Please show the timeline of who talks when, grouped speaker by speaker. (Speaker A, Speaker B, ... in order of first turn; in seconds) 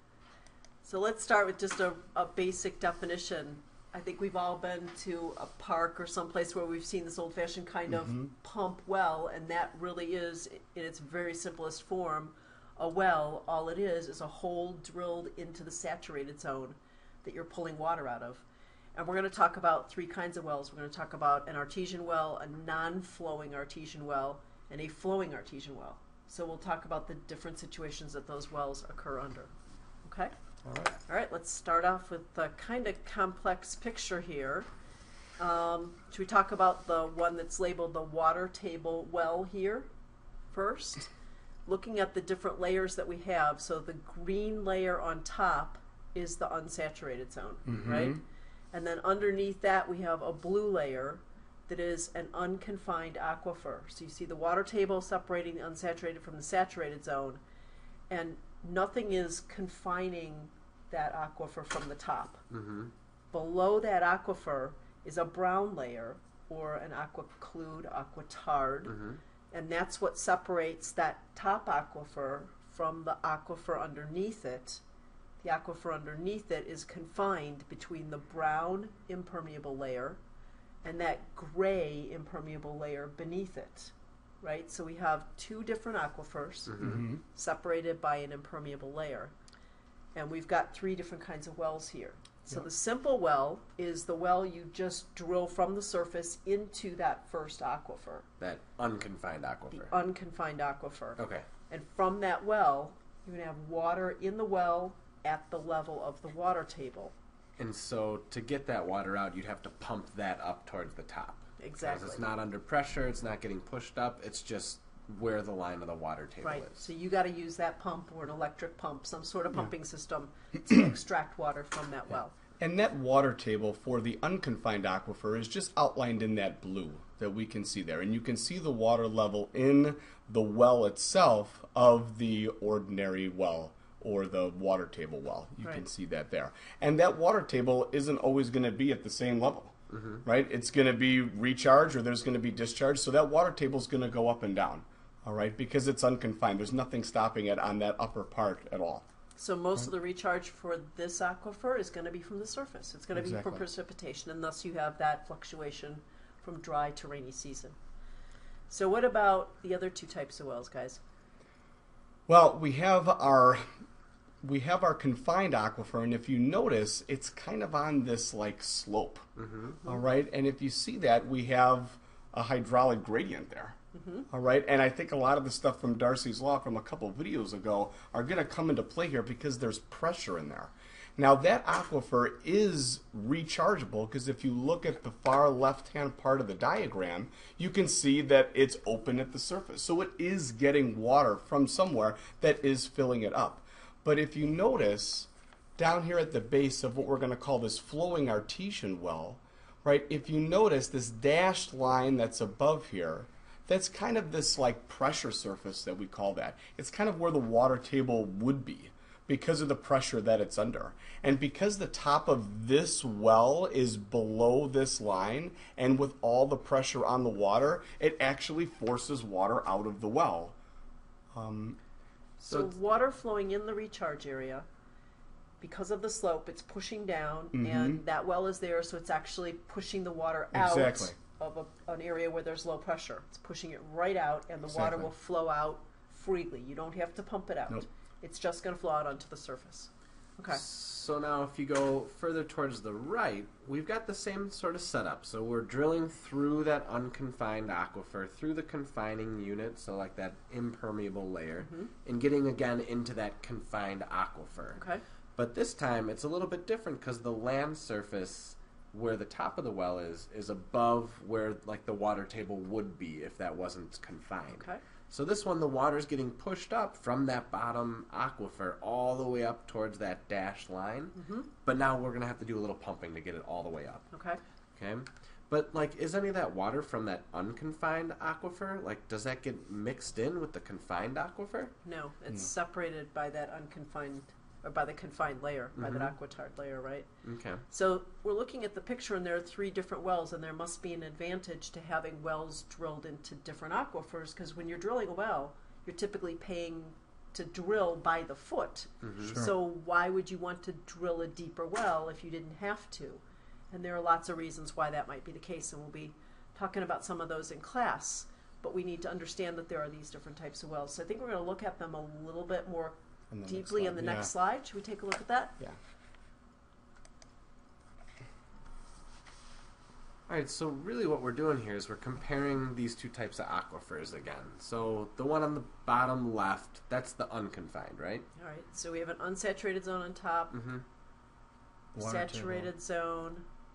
Speaker A: 0.8-18.4, 18.9-29.5, 30.0-30.3, 31.0-34.7, 35.4-39.9, 40.5-41.1, 41.7-57.4, 58.1-62.4, 63.3-68.9, 69.5-74.8, 75.4-80.2, 80.8-89.3, 90.2-98.3, 99.7-107.1, 111.6-112.2, 116.4-122.3, 149.3-157.8, 158.7-161.0, 173.9-174.3, 222.4-224.7, 225.6-240.6, 251.6-251.9, 254.8-255.0, 264.5-264.8, 271.1-271.5, 274.1-274.4, 281.8-287.1, 287.7-315.6, 328.4-330.5, 332.0-333.4
Speaker B: 7.9-8.2, 30.6-30.9, 47.7-48.2, 86.8-87.2, 122.6-149.1, 153.1-153.7, 162.3-163.6, 164.4-169.2, 169.8-173.8, 174.3-220.6, 221.3-221.8, 227.5-228.0, 230.5-231.2, 234.7-235.1, 313.3-314.3, 331.9-332.7
Speaker C: 62.5-62.9, 68.9-69.2, 86.7-87.1, 98.4-99.9, 101.2-101.5, 107.6-116.9, 139.9-140.2, 169.4-169.8, 240.5-254.8, 255.3-274.0, 274.8-281.7, 285.7-286.1, 287.2-287.6, 299.0-299.4, 320.3-328.2, 330.5-330.8